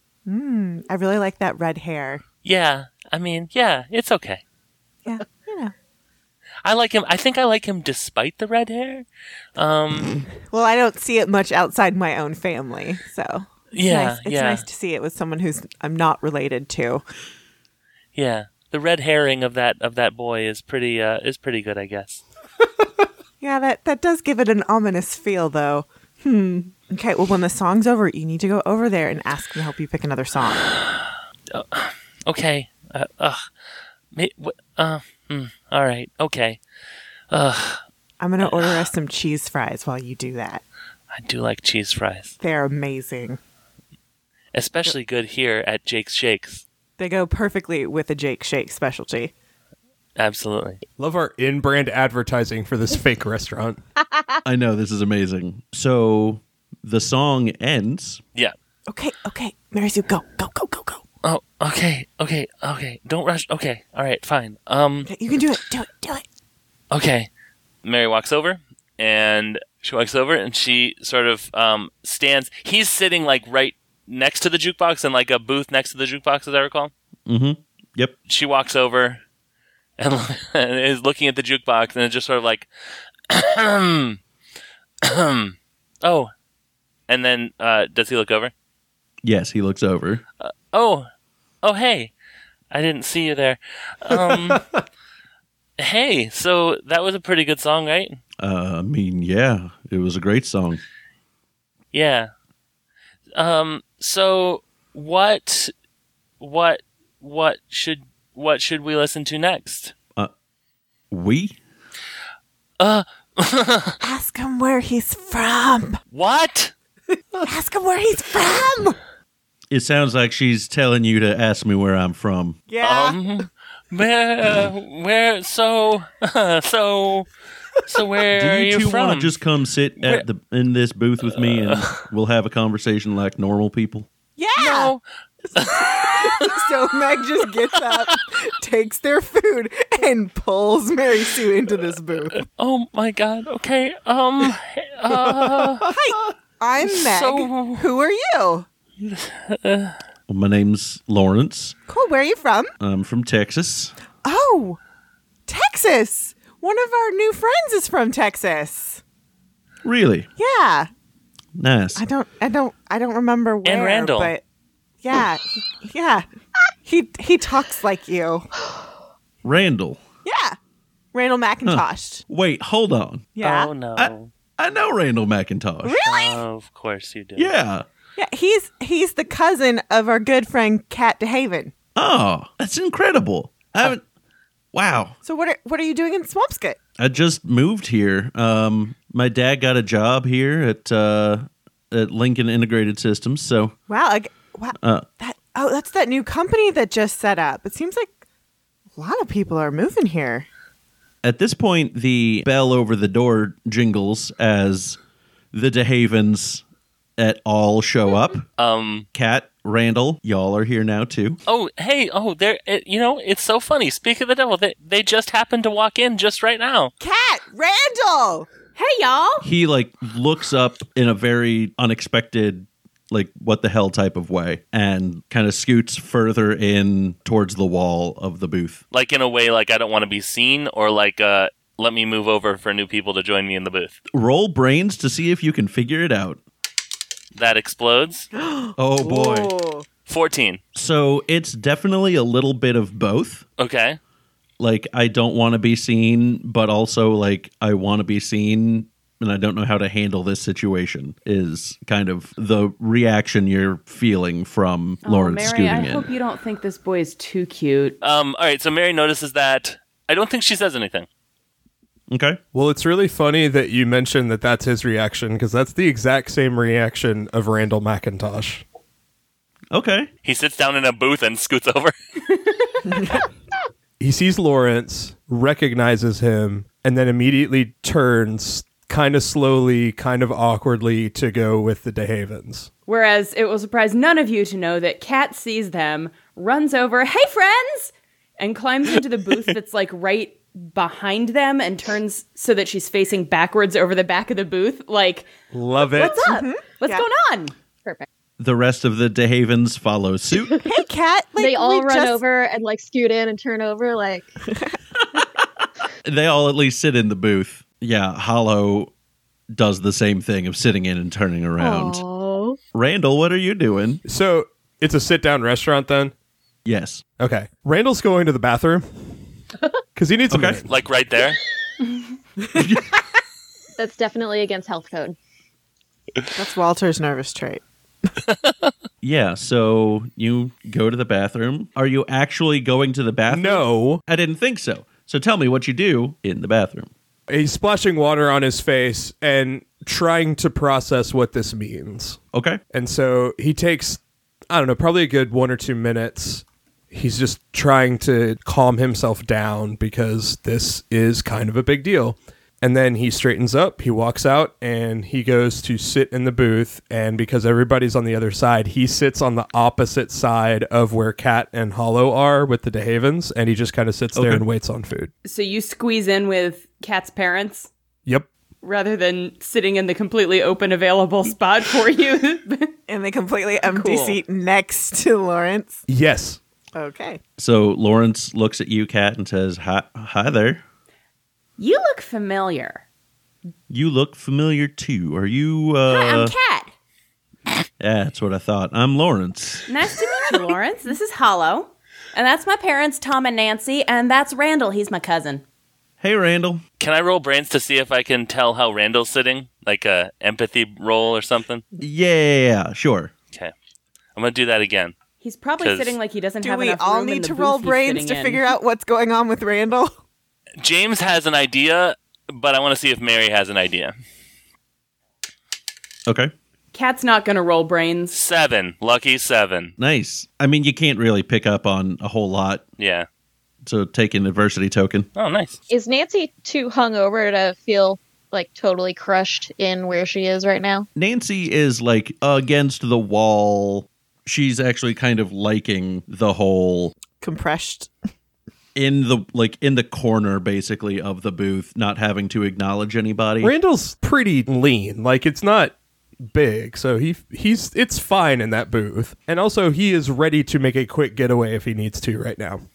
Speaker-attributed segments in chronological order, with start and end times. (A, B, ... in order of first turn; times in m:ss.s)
0:00.2-0:02.2 A
0:02.4-0:04.4 B
0:05.0-0:05.7 A
0:06.6-0:09.0 B
0:09.6-0:10.2 B
0:10.4-0:17.0 A
0:13.7-0:14.6 B
0:18.1-0:22.2 B
0:23.4-0:30.6 A
0:30.7-0:33.4 B
0:34.1-0:36.6 B
0:37.3-0:37.8 B
0:38.2-0:40.6 A
0:38.4-0:38.9 B
0:41.1-0:42.3 B
0:42.4-0:43.4 A
0:44.5-0:46.6 B
0:47.0-0:49.3 A
0:50.2-0:50.8 B
0:51.0-0:53.8 C
0:54.4-0:58.2 D
0:58.9-1:01.0 A
1:01.2-1:05.1 B
1:05.0-1:06.2 A
1:06.9-1:07.3 B
1:07.8-1:16.9 B
1:17.3-1:18.1 D
1:18.3-1:19.2 B
1:20.0-1:22.7 B
1:23.3-1:24.2 B
1:25.0-1:26.3 B
1:27.1-1:28.5 B
1:29.2-1:30.2 D
1:30.4-1:31.1 B
1:31.6-1:32.1 B
1:32.7-1:34.6 B
1:34.1-1:34.6 C
1:35.8-1:38.2 B
1:38.4-1:40.8 D
1:41.9-1:42.3 B
1:43.3-1:45.7 B
1:46.4-1:49.9 B
1:51.1-1:51.6 D
1:52.8-1:54.0 B
1:54.0-1:56.0 A
1:56.1-1:56.7 B
1:57.4-1:59.0 A
1:59.7-2:02.6 D
2:02.7-2:03.2 A
2:02.8-2:07.3 B
2:07.8-2:09.4 B
2:08.3-2:14.1 D
2:11.4-2:12.0 B
2:14.4-2:14.9 A
2:14.6-2:15.0 B
2:15.5-2:22.4 A
2:15.5-2:16.7 B
2:22.6-2:25.9 B
2:25.8-2:28.6 A
2:26.8-2:27.9 B
2:29.0-2:30.0 B
2:30.3-2:31.8 D
2:31.9-2:32.7 A
2:32.8-2:33.9 D
2:34.2-2:34.8 A
2:35.5-2:39.0 A
2:39.8-2:40.3 D
2:40.4-2:40.9 A
2:41.6-2:42.0 D
2:42.0-2:44.4 A
2:43.6-2:44.3 B
2:45.0-2:46.3 A
2:46.8-2:48.5 A
2:49.4-2:50.0 D
2:50.2-2:50.6 A
2:51.1-2:52.2 A
2:51.6-2:53.3 D
2:53.3-2:53.8 A
2:53.4-2:54.3 B
2:54.0-2:56.0 D
2:55.8-2:56.4 A
2:56.0-2:57.5 B
2:57.4-2:57.8 D
2:58.2-3:01.7 A
3:02.0-3:04.0 D
3:04.7-3:05.1 D
3:05.2-3:06.8 A
3:07.0-3:13.7 D
3:13.9-3:18.1 A
3:14.8-3:15.1 D
3:19.0-3:20.4 A
3:21.2-3:25.0 D
3:25.5-3:26.6 D
3:27.2-3:28.4 D
3:28.6-3:29.0 B
3:29.1-3:31.4 D
3:31.5-3:36.9 B
3:37.0-3:38.5 A
3:38.8-3:39.5 E
3:39.4-3:48.8 D
3:48.9-3:54.0 B
3:54.1-3:56.4 D
3:57.3-3:58.3 B
3:58.3-3:59.8 A
3:58.8-3:59.5 D
4:00.1-4:00.6 B
4:00.8-4:03.4 D
4:03.6-4:04.0 B
4:04.6-4:16.1 D
4:15.0-4:18.0 E
4:18.0-4:21.1 B
4:22.1-4:22.4 D
4:22.5-4:28.6 C
4:29.7-4:30.1 D
4:30.2-4:31.9 B
4:34.0-4:42.7 C
4:42.8-4:55.3 E
4:55.5-4:56.3 C
4:55.9-4:57.5 E
4:55.9-4:57.0 A
4:58.4-5:00.6 D
5:00.6-5:02.2 A
5:01.4-5:04.3 F
5:06.0-5:08.9 D
5:09.5-5:12.0 D
5:11.6-5:12.6 F
5:12.7-5:14.0 D
5:14.0-5:16.1 C
5:16.6-5:17.0 D
5:17.2-5:19.2 C
5:19.9-5:20.6 C
5:20.3-5:20.6 D
5:20.7-5:21.4 B
5:22.6-5:22.9 D
5:23.8-5:25.2 F
5:26.3-5:27.6 A
5:28.3-5:28.7 B
5:29.0-5:36.9 D
5:33.3-5:34.0 C
5:37.3-5:42.2 C
5:42.3-5:42.6 D
5:42.7-6:05.1 C
6:04.1-6:04.4 D
6:05.2-6:07.7 E
6:08.6-6:12.7 E
6:12.9-6:15.8 A
6:13.6-6:14.2 E
6:15.9-6:16.4 C
6:16.7-6:17.2 A
6:17.4-6:20.6 D
6:21.6-6:22.8 E
6:23.7-6:26.3 D
6:25.9-6:26.7 E
6:27.8-6:29.6 D
6:29.7-6:35.4 E
6:36.0-6:36.6 D
6:36.8-6:41.6 B
6:41.8-6:43.1 D
6:44.2-6:44.9 B
6:45.2-6:48.4 E
6:45.6-6:46.0 B
6:46.4-6:49.9 A
6:50.6-6:53.9 B
6:56.1-6:56.3 D
6:56.7-6:58.1 E
6:58.1-6:59.7 B
6:59.8-7:02.6 D
7:02.8-7:03.1 B
7:03.6-7:05.1 D
7:05.2-7:05.6 B
7:05.7-7:10.9 F
7:10.9-7:16.9 D
7:17.2-7:17.9 A
7:18.7-7:23.5 D
7:23.4-7:32.6 C